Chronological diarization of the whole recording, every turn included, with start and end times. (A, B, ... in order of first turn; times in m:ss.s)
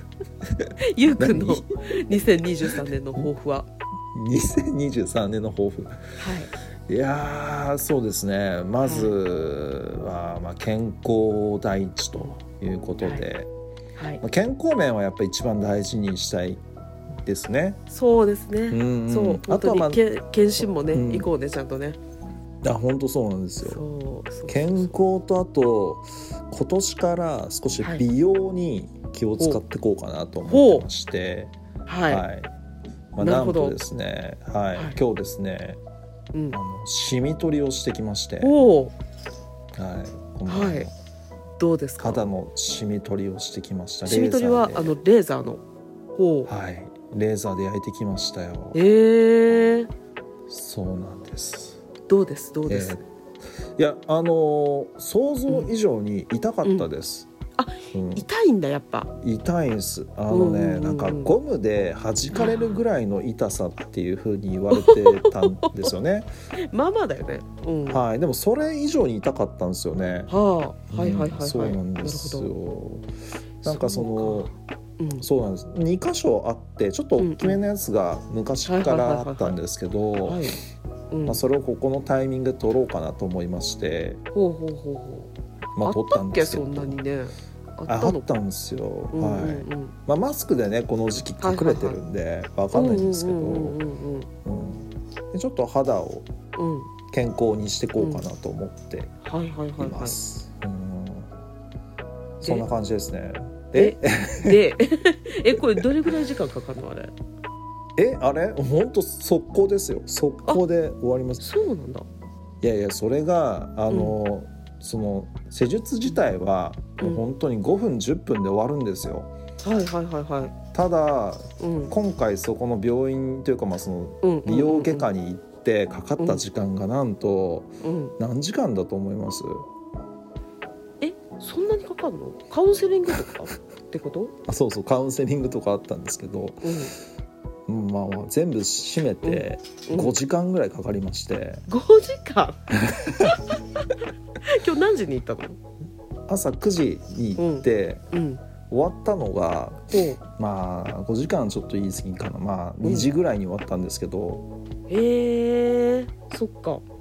0:00.6-0:03.3 A
0:00.8-0:03.7 B
0:04.1-0:06.2 A
0:06.2-0:06.5 B
0:06.9-0:13.5 A
0:08.8-0:09.2 B
0:13.0-0:13.3 B
0:14.0-0:14.2 B
0:14.2-0:16.6 A
0:17.2-0:17.8 A
0:17.9-0:22.0 B
0:18.7-0:20.0 A
0:20.9-0:21.3 A
0:22.6-0:23.8 A
0:23.6-0:25.0 B
0:24.5-0:31.5 A
0:30.5-0:30.9 B
0:31.9-0:32.2 B
0:32.1-0:32.5 A
0:33.2-0:35.8 A
0:33.2-0:33.8 B
0:36.3-0:36.6 B
0:36.5-0:38.6 A
0:38.4-0:38.9 B
0:39.7-0:40.9 A
0:40.5-0:40.9 B
0:41.6-0:42.3 B
0:42.0-0:45.0 A
0:44.1-0:45.6 B
0:46.2-0:46.5 B
0:46.5-0:48.8 A
0:48.7-0:49.9 B
0:50.5-0:51.8 A
0:52.1-0:53.0 B
0:52.7-0:53.0 A
0:53.8-0:57.3 A
0:55.5-0:55.7 B
0:56.6-0:56.9 B
0:57.6-0:59.1 B
0:57.9-0:58.3 A
0:59.2-1:06.3 A
1:00.3-1:01.4 B
1:02.3-1:02.8 B
1:04.7-1:05.9 B
1:06.6-1:08.0 B
1:07.9-1:10.3 A
1:10.3-1:12.5 B
1:10.9-1:13.1 A
1:13.6-1:15.3 B
1:13.6-1:14.5 A
1:15.2-1:20.4 A
1:17.2-1:17.6 B
1:18.7-1:19.6 B
1:20.2-1:20.6 B
1:21.1-1:21.4 B
1:21.3-1:24.2 A
1:24.3-1:28.3 B
1:25.8-1:27.0 A
1:27.9-1:33.8 A
1:29.1-1:30.0 B
1:31.4-1:32.0 B
1:32.7-1:34.3 B
1:34.4-1:36.3 A
1:36.6-1:36.9 B
1:37.1-1:39.1 A
1:38.0-1:38.2 B
1:39.2-1:40.2 B
1:39.8-1:41.3 A
1:42.4-1:42.7 B
1:42.4-1:44.6 A
1:43.8-1:47.1 B
1:45.6-1:46.1 A
1:48.0-1:51.4 A
1:51.4-1:52.1 B
1:52.6-1:59.3 A
1:53.9-1:54.2 B
1:59.6-2:00.6 B
2:00.7-2:09.7 A
2:01.6-2:01.9 B
2:04.2-2:05.1 B
2:06.2-2:06.4 B
2:07.8-2:08.2 B
2:11.0-2:14.3 B
2:14.5-2:16.8 A
2:16.6-2:17.0 B
2:17.7-2:21.7 A
2:19.2-2:20.2 B
2:21.7-2:22.6 B
2:22.8-2:23.4 A
2:23.1-2:23.4 B
2:24.4-2:25.6 B
2:26.3-2:28.0 A
2:27.4-2:28.4 B
2:28.7-2:34.4 A
2:29.9-2:30.2 B
2:32.8-2:33.1 B
2:34.9-2:36.8 B